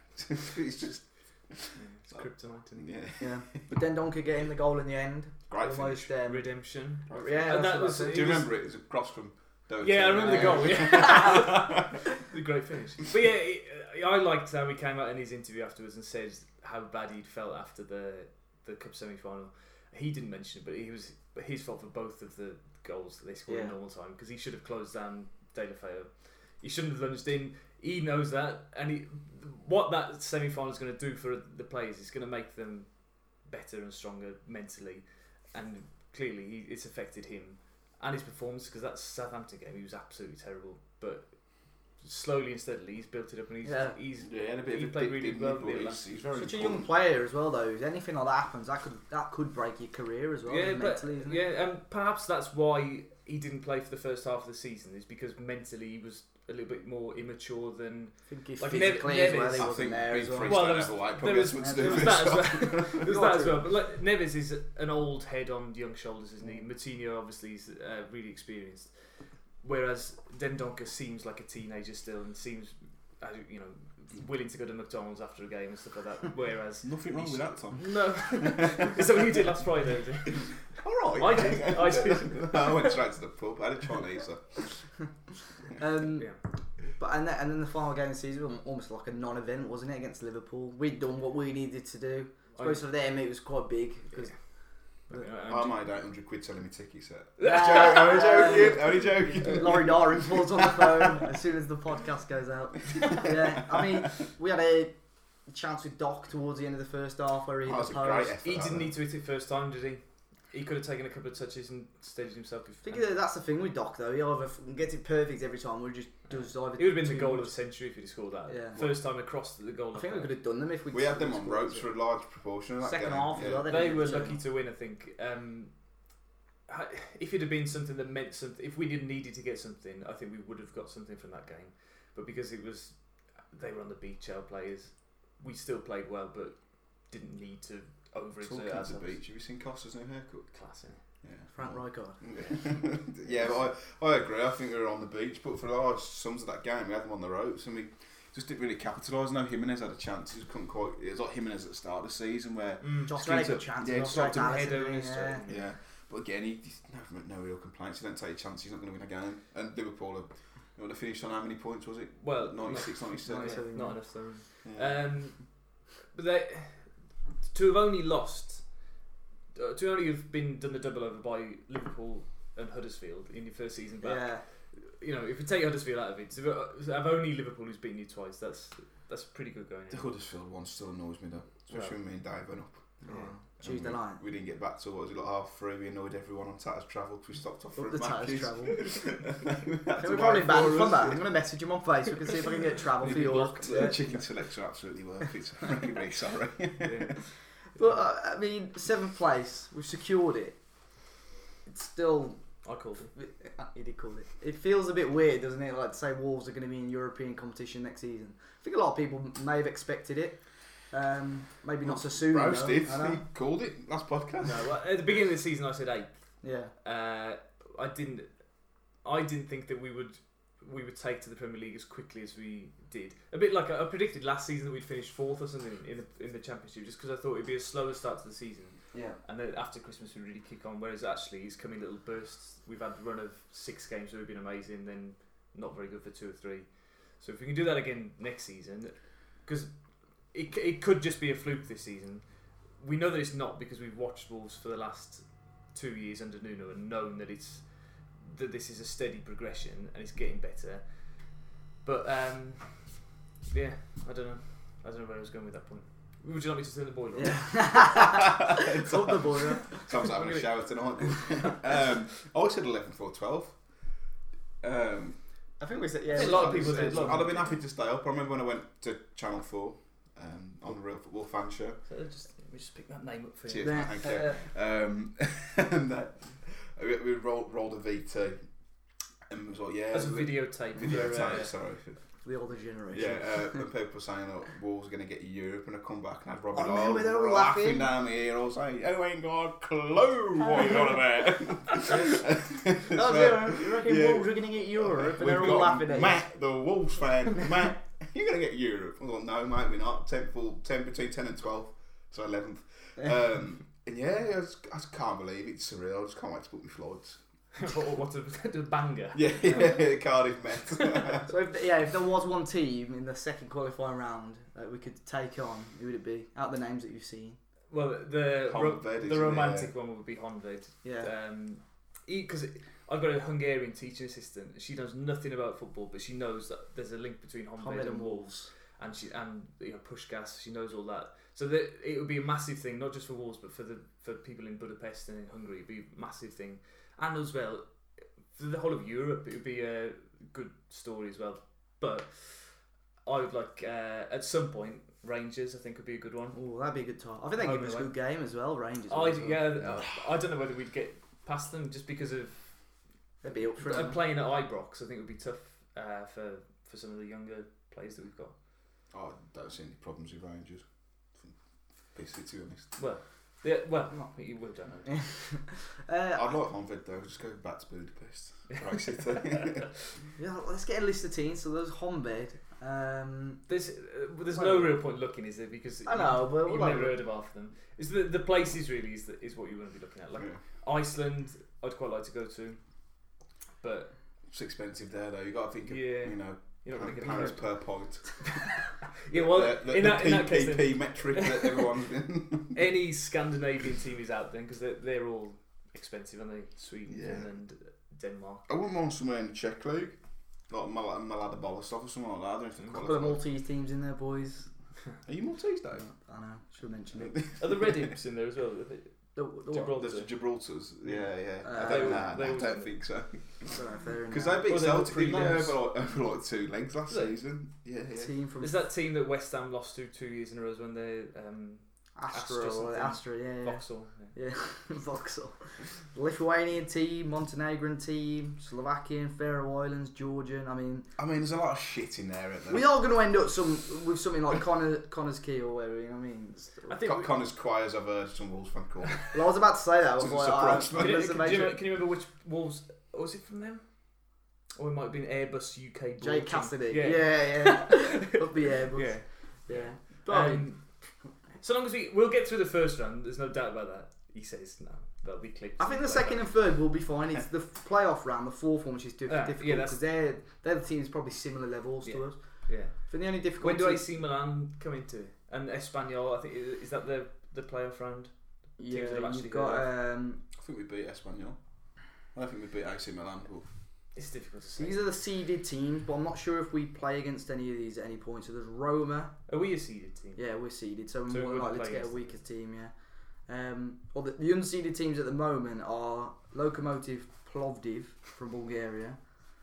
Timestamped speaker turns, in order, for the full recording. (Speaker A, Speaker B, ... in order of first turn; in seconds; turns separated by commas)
Speaker A: 0.1-3.6, Speaker B: 1.8-2.9, Speaker C: 3.2-8.3, Speaker A: 5.5-6.1, Speaker B: 6.2-8.5, Speaker A: 7.1-11.8, Speaker B: 9.8-41.3, Speaker C: 10.2-11.5, Speaker C: 23.5-23.7, Speaker B: 42.0-46.0, Speaker C: 43.6-44.0, Speaker A: 44.2-46.9, Speaker C: 46.4-51.4, Speaker B: 50.5-59.8, Speaker C: 58.3-60.9, Speaker A: 59.5-63.1, Speaker B: 60.4-68.9, Speaker C: 61.6-63.7, Speaker B: 69.6-83.0, Speaker A: 76.8-79.3, Speaker A: 80.3-84.8, Speaker C: 85.7-86.3, Speaker C: 87.0-94.3, Speaker B: 92.6-92.8, Speaker B: 95.1-95.7, Speaker A: 95.5-100.9, Speaker B: 97.4-98.8, Speaker C: 97.4-108.4, Speaker A: 103.0-103.3, Speaker A: 107.6-108.9, Speaker B: 108.4-113.0, Speaker C: 112.8-117.5, Speaker B: 116.4-120.3, Speaker C: 118.5-118.8, Speaker C: 119.9-121.9, Speaker A: 120.9-123.8, Speaker C: 122.8-124.4, Speaker B: 123.7-125.7, Speaker B: 126.7-139.2, Speaker A: 138.4-140.5, Speaker B: 140.5-141.0, Speaker A: 141.2-154.5, Speaker C: 141.5-142.2, Speaker B: 142.3-142.6, Speaker B: 152.8-153.2, Speaker C: 153.1-155.4, Speaker B: 154.1-155.7, Speaker A: 155.5-163.7, Speaker B: 162.2-168.9, Speaker C: 163.2-164.0, Speaker A: 164.6-165.0, Speaker B: 169.5-180.1, Speaker C: 174.0-174.4, Speaker A: 179.9-191.2, Speaker B: 181.7-182.0, Speaker C: 183.1-184.2, Speaker C: 187.8-188.9, Speaker C: 190.0-194.0, Speaker B: 193.0-194.2, Speaker A: 193.0-197.2, Speaker B: 196.8-197.2, Speaker C: 197.8-200.6, Speaker C: 201.7-202.4, Speaker B: 202.6-203.1, Speaker C: 203.2-213.2, Speaker A: 211.8-214.7, Speaker B: 214.4-216.1, Speaker C: 216.4-216.7, Speaker B: 216.8-218.3, Speaker B: 219.0-239.7, Speaker C: 228.9-229.2, Speaker B: 240.3-257.8, Speaker C: 257.1-259.9, Speaker A: 257.9-263.6, Speaker B: 259.9-261.2, Speaker A: 264.6-265.2, Speaker C: 265.6-267.4, Speaker B: 266.1-267.5, Speaker A: 266.1-271.8, Speaker B: 271.9-273.9, Speaker A: 273.5-278.5, Speaker C: 273.6-274.4, Speaker A: 279.3-282.1, Speaker B: 279.9-281.5, Speaker C: 282.2-283.6, Speaker A: 282.9-307.2, Speaker C: 286.5-287.9, Speaker C: 292.8-296.2, Speaker B: 307.6-309.9, Speaker A: 309.1-311.3, Speaker B: 310.7-311.2, Speaker C: 311.3-317.4, Speaker B: 317.7-337.7, Speaker A: 318.4-319.7, Speaker C: 320.8-321.1, Speaker C: 327.6-328.5, Speaker B: 338.3-346.4, Speaker C: 346.3-349.5, Speaker B: 347.4-347.9, Speaker B: 348.9-352.8, Speaker C: 353.2-354.0, Speaker B: 353.3-358.3, Speaker A: 358.9-361.4, Speaker A: 361.9-362.8, Speaker B: 362.8-365.1, Speaker C: 364.9-366.4, Speaker A: 366.1-369.7, Speaker B: 368.5-369.7, Speaker C: 370.2-373.4, Speaker B: 373.5-382.6, Speaker C: 374.3-374.8, Speaker C: 375.9-377.0, Speaker B: 383.6-383.9, Speaker A: 384.3-392.6, Speaker B: 385.7-388.1, Speaker B: 388.9-391.7, Speaker B: 392.5-398.5, Speaker A: 396.9-397.3, Speaker A: 398.5-400.0, Speaker A: 400.5-403.2, Speaker C: 402.8-404.5, Speaker A: 405.1-405.9, Speaker C: 405.7-407.2, Speaker A: 407.0-407.9, Speaker B: 407.4-410.2, Speaker C: 409.2-409.8, Speaker A: 409.7-418.1, Speaker B: 410.9-412.8, Speaker C: 411.4-412.1, Speaker C: 413.5-414.5, Speaker B: 414.4-415.6, Speaker C: 415.1-415.4, Speaker B: 416.9-417.2, Speaker C: 418.0-418.6, Speaker B: 418.4-424.1, Speaker C: 422.0-430.9, Speaker A: 431.0-432.6, Speaker C: 432.5-436.8, Speaker B: 436.7-437.1, Speaker A: 436.8-439.1, Speaker C: 439.1-441.6, Speaker A: 440.0-441.5, Speaker B: 440.7-444.0, Speaker B: 444.6-450.7, Speaker C: 446.0-450.5, Speaker B: 451.3-456.4, Speaker C: 455.6-463.8, Speaker B: 459.1-459.8, Speaker B: 461.8-469.7, Speaker C: 468.6-470.2, Speaker A: 470.3-473.5, Speaker B: 473.9-474.8, Speaker C: 474.6-479.2, Speaker B: 479.3-480.2, Speaker C: 480.2-489.0, Speaker B: 481.1-482.2